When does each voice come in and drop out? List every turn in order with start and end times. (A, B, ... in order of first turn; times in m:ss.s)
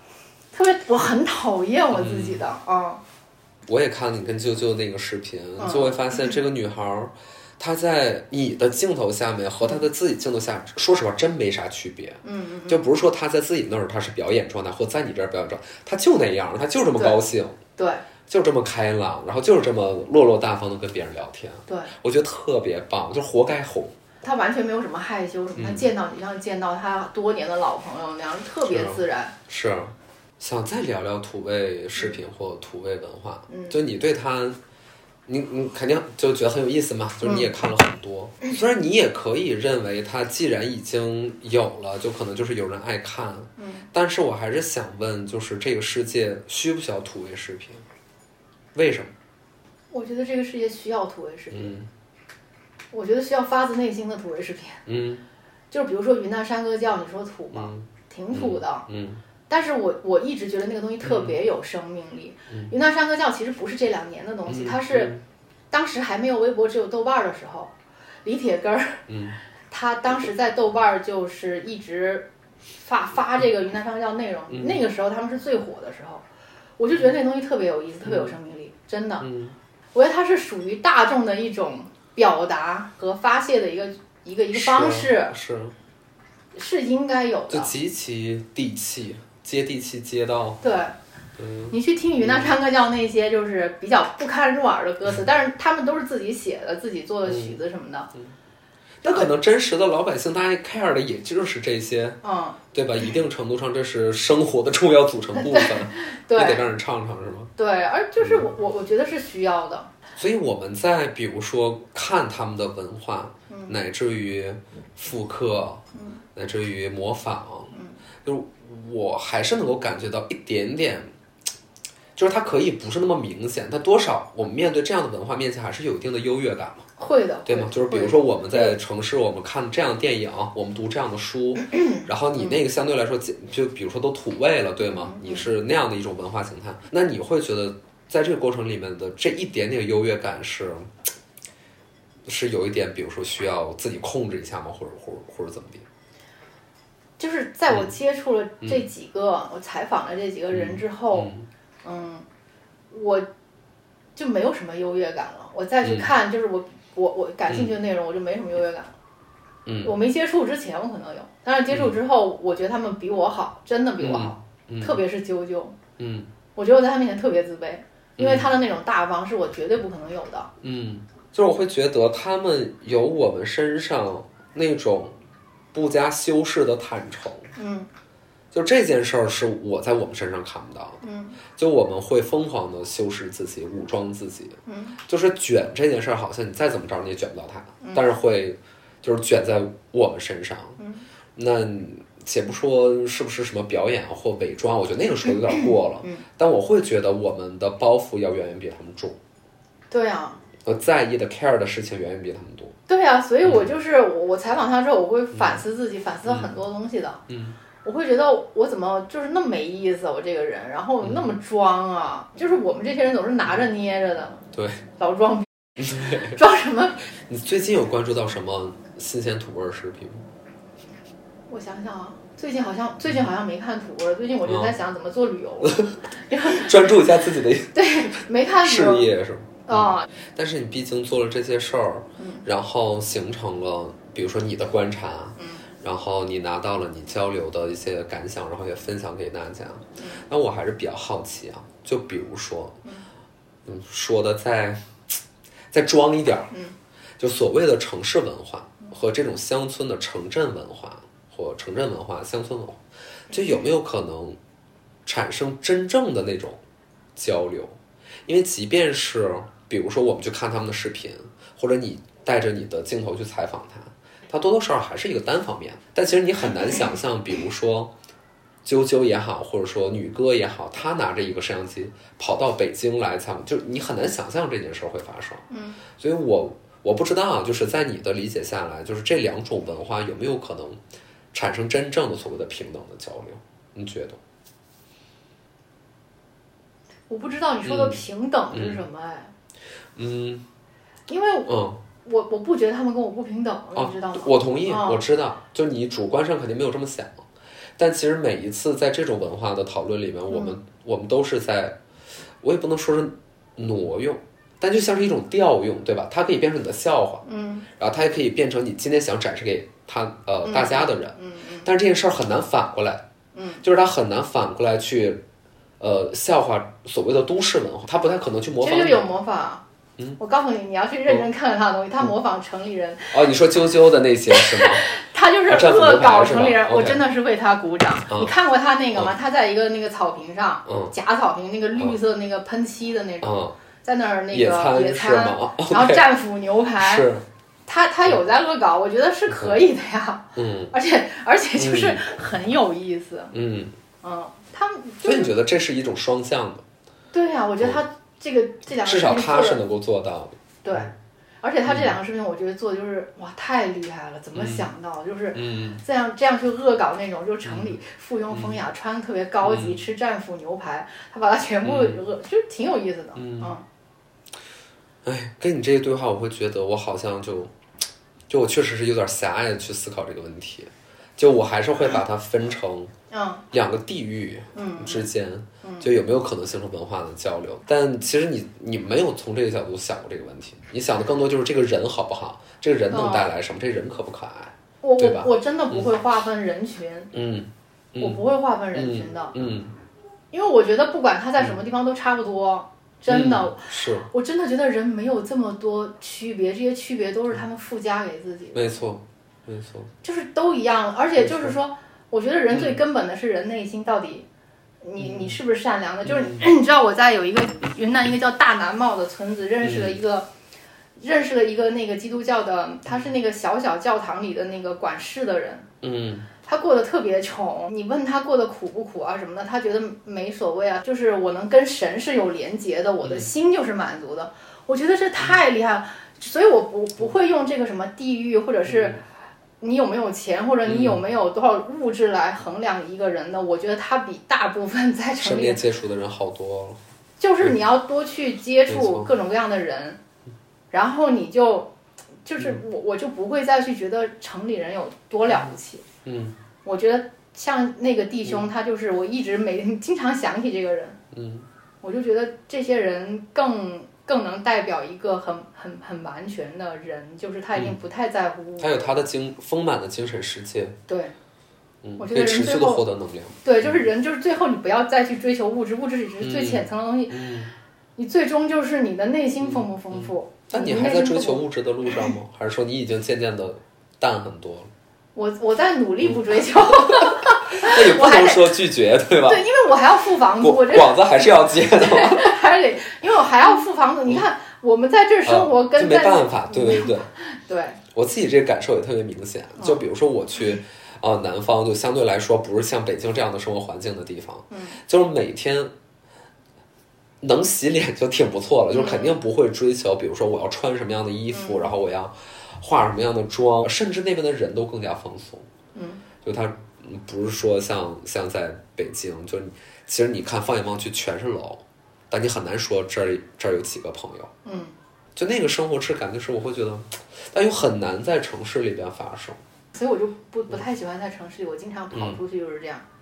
0:00.5-0:03.0 A
0:01.9-0:02.4 B
0:03.6-0:17.6 B
0:05.6-0:06.4 A
0:12.2-0:12.8 A
0:17.8-0:18.0 A
0:18.3-0:23.9 B
0:21.7-0:21.9 A
0:24.2-0:29.3 A
0:25.6-0:25.8 B
0:28.7-0:34.6 B
0:33.5-0:33.8 A
0:35.3-0:47.8 B
0:37.2-0:37.5 A
0:43.6-0:43.9 A
0:48.7-0:49.1 B
0:49.9-0:51.8 A
0:51.5-0:51.9 B
0:52.9-0:54.8 A
0:54.8-0:55.2 B
0:55.7-0:58.8 A
0:57.5-0:59.2 B
0:59.5-1:05.1 A
1:01.0-1:01.4 B
1:04.5-1:05.2 B
1:05.7-1:07.7 A
1:08.2-1:09.0 A
1:09.1-1:09.4 B
1:09.7-1:16.2 A
1:14.5-1:14.8 B
1:16.8-1:19.2 A
1:18.0-1:18.3 B
1:19.2-1:19.6 B
1:19.9-1:25.3 A
1:24.5-1:25.7 B
1:26.5-1:27.7 A
1:27.5-1:30.6 B
1:30.6-1:31.0 A
1:31.4-1:32.6 B
1:31.7-1:38.1 A
1:37.2-1:37.6 B
1:39.0-1:42.2 B
1:39.0-1:39.3 A
1:42.2-1:42.6 A
1:42.7-1:47.5 B
1:45.4-1:46.6 A
1:47.6-1:49.9 A
1:48.2-1:48.5 B
1:50.2-1:55.8 B
1:55.9-1:56.2 A
1:56.3-1:57.7 B
1:57.7-1:58.0 A
1:58.2-2:01.1 B
2:02.2-2:06.9 B
2:07.0-2:08.8 A
2:07.4-2:20.9 B
2:14.8-2:15.4 A
2:22.2-2:25.8 B
2:27.2-2:31.3 A
2:30.5-2:31.5 B
2:31.8-2:32.2 A
2:32.9-2:33.3 A
2:34.2-2:38.9 A
2:35.8-2:36.1 B
2:37.5-2:37.7 B
2:39.6-2:39.9 B
2:39.8-2:45.8 A
2:41.7-2:42.0 B
2:44.0-2:45.0 B
2:46.0-2:46.3 B
2:46.6-2:50.5 A
2:48.2-2:48.5 B
2:50.6-2:55.2 B
2:55.7-2:57.5 B
2:57.6-2:57.9 A
2:58.5-3:01.0 B
3:01.0-3:01.4 A
3:01.5-3:10.8 B
3:04.6-3:05.0 A
3:10.8-3:11.0 A
3:11.4-3:19.2 B
3:19.9-3:20.4 A
3:20.6-3:22.7 B
3:22.9-3:27.2 A
3:25.3-3:25.6 B
3:26.2-3:26.5 B
3:27.3-3:27.6 B
3:27.8-3:34.4 A
3:31.0-3:31.3 B
3:34.5-3:34.8 B
3:35.0-3:37.0 A
3:35.8-3:36.4 B
3:37.3-3:40.2 B
3:41.5-3:47.0 A
3:44.4-3:44.7 B
3:45.6-3:46.0 B
3:46.5-4:02.8 B
3:47.7-3:49.1 A
3:49.7-3:50.1 A
3:52.2-3:52.4 A
3:55.4-3:55.6 A
4:03.6-4:05.2 B
4:05.7-4:06.5 B
4:07.2-4:14.4 B
4:15.0-4:16.6 B
4:17.2-4:27.9 B
4:28.6-4:35.4 B
4:35.5-4:35.8 A
4:36.0-4:40.8 B
4:41.3-4:44.2 B
4:47.1-4:49.3 A
4:47.6-4:48.0 B
4:48.5-4:48.8 B
4:50.0-4:50.4 B
4:51.1-4:55.0 A
4:51.5-4:51.8 B
4:53.7-4:57.2 B
4:57.8-5:01.8 B
5:00.3-5:00.5 A
5:02.4-5:07.2 B
5:07.2-5:07.7 A
5:07.8-5:13.0 B
5:10.4-5:11.7 A
5:13.3-5:13.6 A
5:13.6-5:15.2 B
5:15.8-5:19.1 B
5:18.6-5:19.6 A
5:20.2-5:23.2 A
5:23.1-5:24.8 B
5:24.3-5:33.3 A
5:25.5-5:27.0 B
5:30.6-5:30.9 B
5:33.2-5:33.5 B
5:33.8-5:37.1 A
5:34.3-5:36.0 B
5:36.8-5:37.2 B
5:37.7-5:43.3 A
5:39.3-5:39.6 B
5:40.4-5:40.7 B
5:41.6-5:42.0 B
5:43.3-5:43.7 B
5:44.0-5:45.3 A
5:45.0-5:46.6 B
5:47.1-5:49.6 A
5:48.8-5:50.9 B
5:50.6-6:03.6 A
5:51.6-5:51.9 B
5:54.3-5:54.6 B
5:55.3-5:55.8 B
5:57.4-5:57.7 B
5:58.3-5:58.6 B
5:59.4-5:59.8 B
6:01.6-6:02.0 B
6:03.2-6:03.5 B
6:05.0-6:07.5 B
6:08.3-6:12.9 B
6:13.1-6:13.4 A
6:13.5-6:25.9 B
6:14.5-6:15.1 A
6:15.6-6:15.9 A
6:22.9-6:23.3 A
6:24.8-6:27.1 A
6:27.1-6:28.2 B
6:28.0-6:29.3 A
6:28.7-6:29.7 B
6:30.3-6:38.8 A
6:33.1-6:34.1 B
6:38.5-6:39.9 B
6:40.0-6:44.2 A
6:41.2-6:41.6 B
6:42.5-6:42.8 B
6:44.8-6:50.3 A
6:45.0-6:45.4 B
6:46.0-6:46.4 B
6:49.6-6:50.0 B
6:51.0-6:55.7 A
6:55.8-6:56.3 B
6:56.4-7:09.0 A
7:03.0-7:03.3 B
7:08.7-7:09.0 B
7:09.6-7:15.6 A
7:10.6-7:11.0 B
7:15.2-7:16.8 B
7:17.2-7:20.0 A
7:18.7-7:19.1 B
7:20.7-7:21.7 A
7:22.2-7:25.8 A
7:26.0-7:26.3 B
7:26.6-7:31.0 A
7:31.1-7:31.4 B
7:31.8-7:39.0 A
7:38.6-7:40.8 B
7:40.9-7:41.1 A
7:41.8-7:43.8 B
7:42.0-7:42.8 A
7:43.4-7:47.2 A
7:46.2-7:47.5 B
7:48.0-7:52.1 A
7:49.4-7:54.7 B
7:55.1-7:58.6 A
7:56.8-7:59.4 B
7:59.2-8:07.8 A
8:00.4-8:02.3 B
8:05.2-8:07.1 B
8:07.9-8:15.7 B
8:09.6-8:09.8 A
8:14.5-8:14.8 A
8:17.2-8:25.5 B
8:18.7-8:19.2 A
8:21.3-8:21.7 A
8:25.7-8:26.0 A
8:26.2-8:34.3 B
8:34.4-8:34.7 A
8:35.2-8:39.4 B
8:39.7-8:42.8 A
8:41.9-8:42.2 B